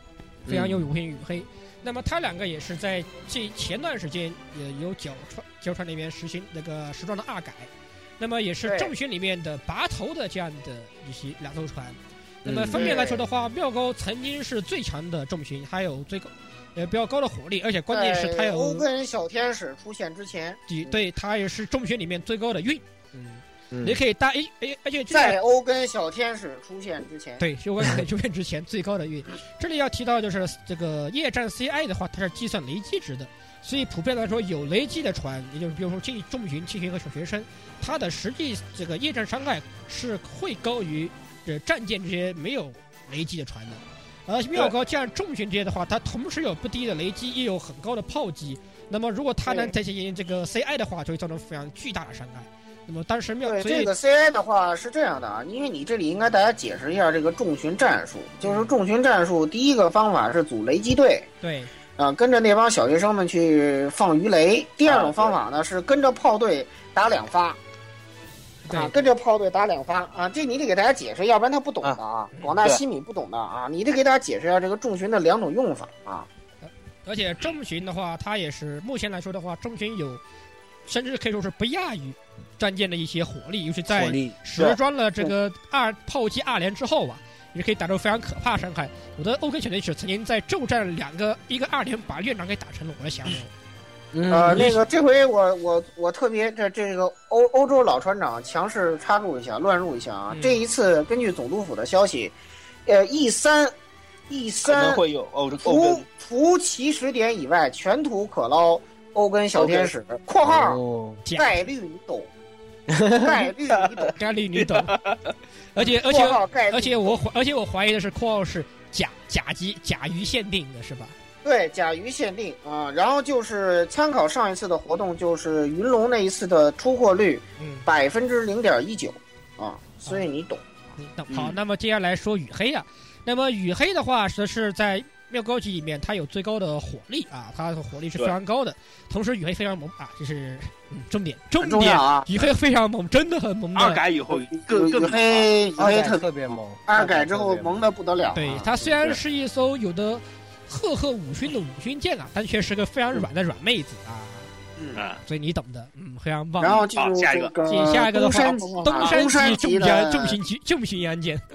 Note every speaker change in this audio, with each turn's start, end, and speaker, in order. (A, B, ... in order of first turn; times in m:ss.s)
0:00.5-0:18.9 A
0:08.7-0:08.9 B
0:12.4-0:13.0 C
0:12.7-0:13.2 B
0:17.9-0:21.0 B
0:20.7-0:25.4 A
0:23.7-0:24.0 C
0:25.1-0:27.4 B
0:27.4-0:53.9 A
0:49.5-0:49.7 B
0:53.4-1:01.3 B
0:58.4-0:58.7 A
1:01.4-1:01.7 A
1:02.0-1:07.6 B
1:04.8-1:05.4 D
1:08.7-1:09.0 A
1:08.7-1:16.3 B
1:16.6-1:20.2 A
1:20.9-1:33.5 A
1:23.9-1:24.4 C
1:34.1-1:34.8 C
1:34.3-1:42.3 B
1:34.5-1:34.8 A
1:40.3-1:40.6 A
1:42.9-1:43.7 B
1:44.3-1:45.0 B
1:44.6-1:46.0 D
1:45.6-1:50.8 B
1:49.6-1:49.9 D
1:50.4-1:51.2 C
1:51.2-1:51.6 A
1:51.4-1:52.3 B
1:52.9-1:53.5 C
1:53.2-1:54.2 B
1:53.7-1:55.3 D
1:54.2-1:55.0 A
1:55.8-2:01.2 A
1:55.8-1:57.2 B
2:01.4-2:10.6 B
2:07.6-2:07.9 A
2:11.0-2:24.0 A
2:21.6-2:22.5 B
2:23.8-2:25.5 D
2:24.3-2:29.2 B
2:25.8-2:27.8 C
2:28.4-2:34.5 A
2:34.8-2:35.0 B
2:35.0-2:35.2 D
2:35.3-2:36.9 A
2:36.6-2:40.4 B
2:37.0-2:37.5 D
2:37.7-2:41.4 A